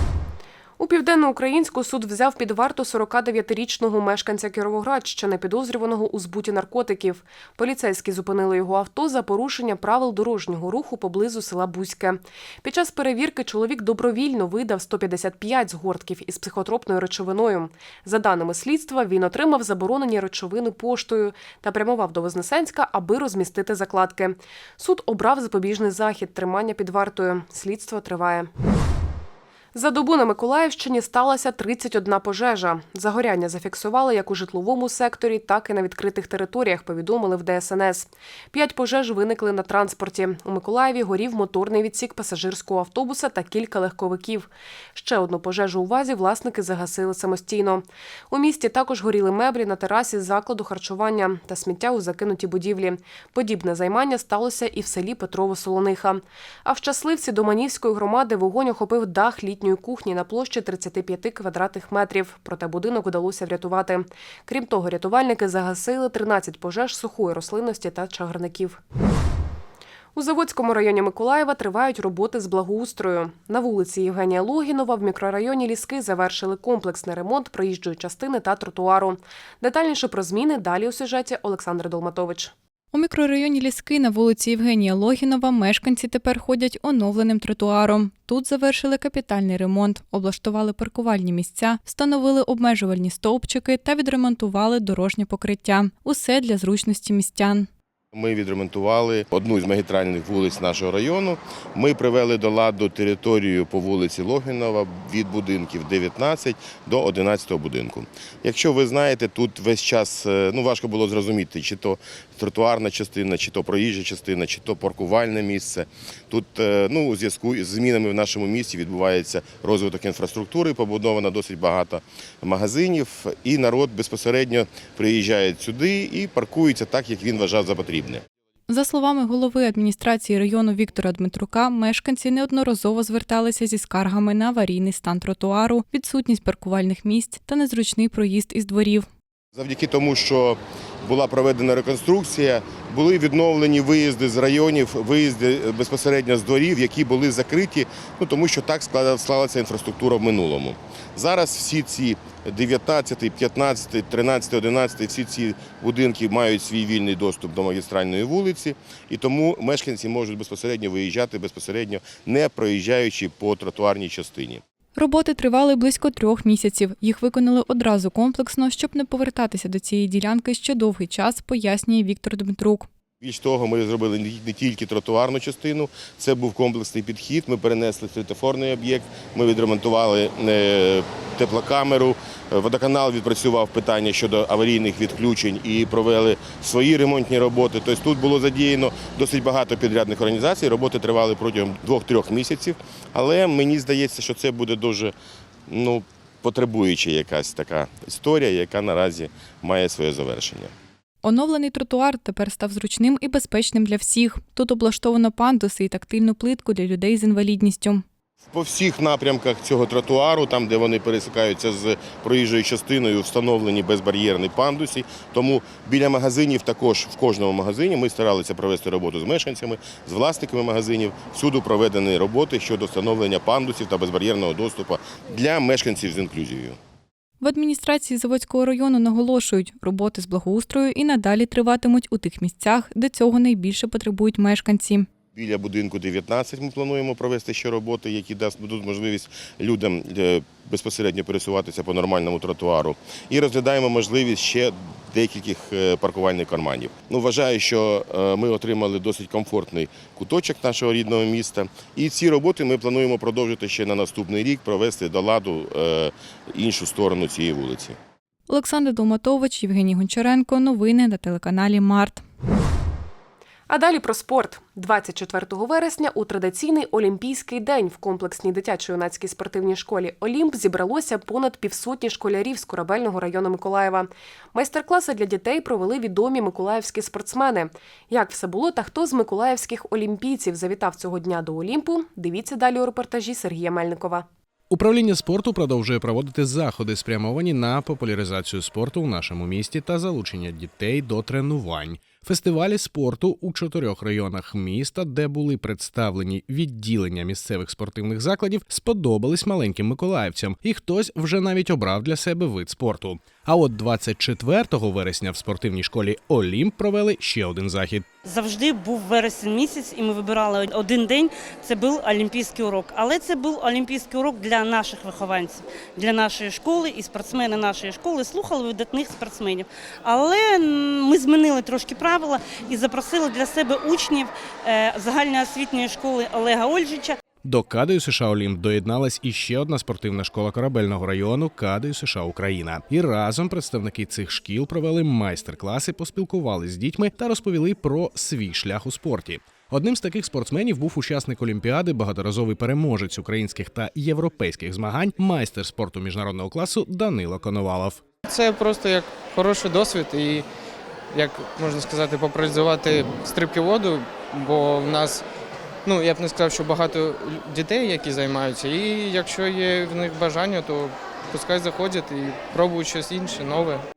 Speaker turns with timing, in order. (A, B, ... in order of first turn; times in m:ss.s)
0:00.8-0:28.5 A
0:29.7-1:08.8 A
1:10.1-1:22.5 A
1:22.9-1:37.7 B
1:38.1-2:08.2 C
2:08.7-2:19.1 B
2:19.5-2:44.6 C
2:44.9-2:52.9 B
2:53.2-3:15.1 C
3:15.7-3:20.7 C
3:21.2-3:28.0 B
3:28.5-3:46.8 C
3:47.4-3:55.1 B
3:55.3-4:18.0 C
4:18.5-4:22.2 B
4:23.7-4:44.2 A
4:44.7-5:08.1 D
5:08.2-5:27.2 E
5:27.4-5:48.0 D
5:48.2-5:50.5 F
5:51.1-5:55.2 F
5:55.8-6:03.8 F